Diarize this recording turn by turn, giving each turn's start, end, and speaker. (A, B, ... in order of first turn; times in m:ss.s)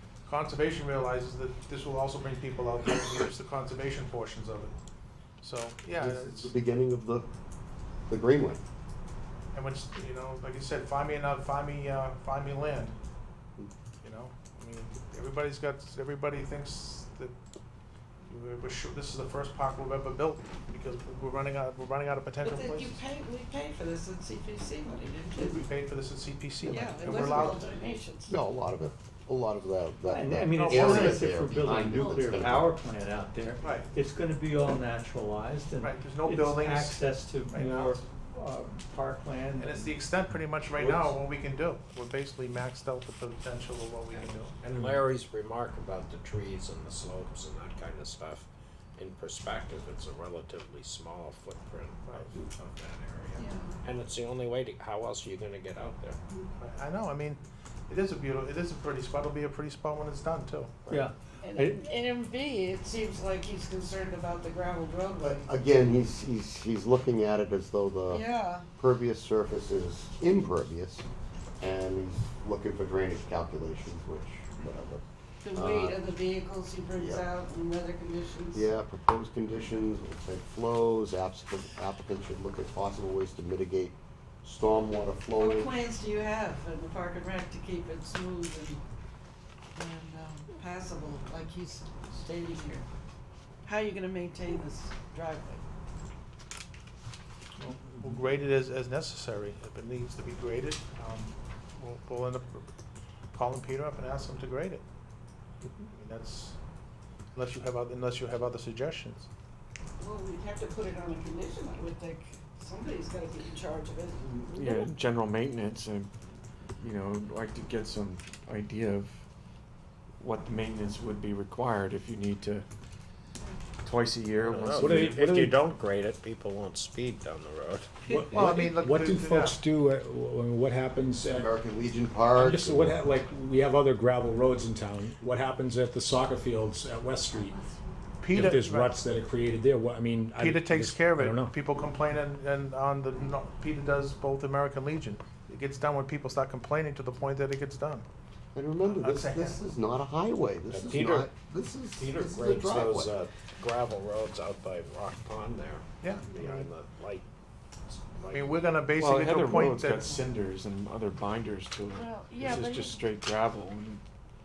0:00.2-0:04.7 A
0:05.4-0:06.5 A
0:06.0-0:07.3 B
0:08.1-0:08.6 B
0:09.5-0:13.0 A
0:14.0-0:17.3 A
0:18.2-0:23.0 A
0:22.4-0:25.6 C
0:25.4-0:27.8 A
0:26.6-0:28.4 C
0:26.7-0:27.6 B
0:28.3-0:32.7 B
0:30.0-0:39.9 D
0:30.6-0:31.2 A
0:31.9-0:32.3 C
0:33.6-0:33.9 A
0:35.8-0:37.0 A
0:37.5-0:38.0 A
0:39.6-0:44.6 A
0:44.1-0:56.2 E
0:52.0-0:52.3 A
0:53.4-0:53.7 C
0:56.6-1:00.9 A
1:00.9-1:01.8 D
1:01.4-1:05.5 C
1:05.2-1:11.0 B
1:08.1-1:08.7 C
1:11.6-1:16.0 B
1:15.4-1:18.7 C
1:17.0-1:17.2 B
1:18.5-1:25.7 B
1:25.4-1:28.8 C
1:29.7-1:32.9 C
1:33.6-1:35.6 C
1:37.6-1:42.6 A
1:43.3-1:44.8 A
1:45.9-1:46.6 A
1:47.3-1:49.3 A
1:50.0-1:54.9 C
1:54.5-1:56.1 F
1:56.8-1:59.2 F
2:00.2-2:02.7 F
2:03.8-2:05.2 F
2:04.4-2:08.0 E
2:04.8-2:05.6 G
2:08.1-2:11.5 G
2:08.2-2:09.6 A
2:11.3-2:13.0 B
2:12.3-2:17.6 G
2:17.4-2:17.8 C
2:18.2-2:19.0 A
2:18.3-2:21.5 G
2:20.4-2:28.0 A
2:28.5-2:33.1 B
2:28.8-2:29.6 A
2:30.7-2:31.3 E
2:32.0-2:37.3 E
2:36.0-2:36.6 A
2:37.9-2:38.6 E
2:38.3-2:40.1 A
2:39.0-2:44.0 F
2:41.9-2:43.0 C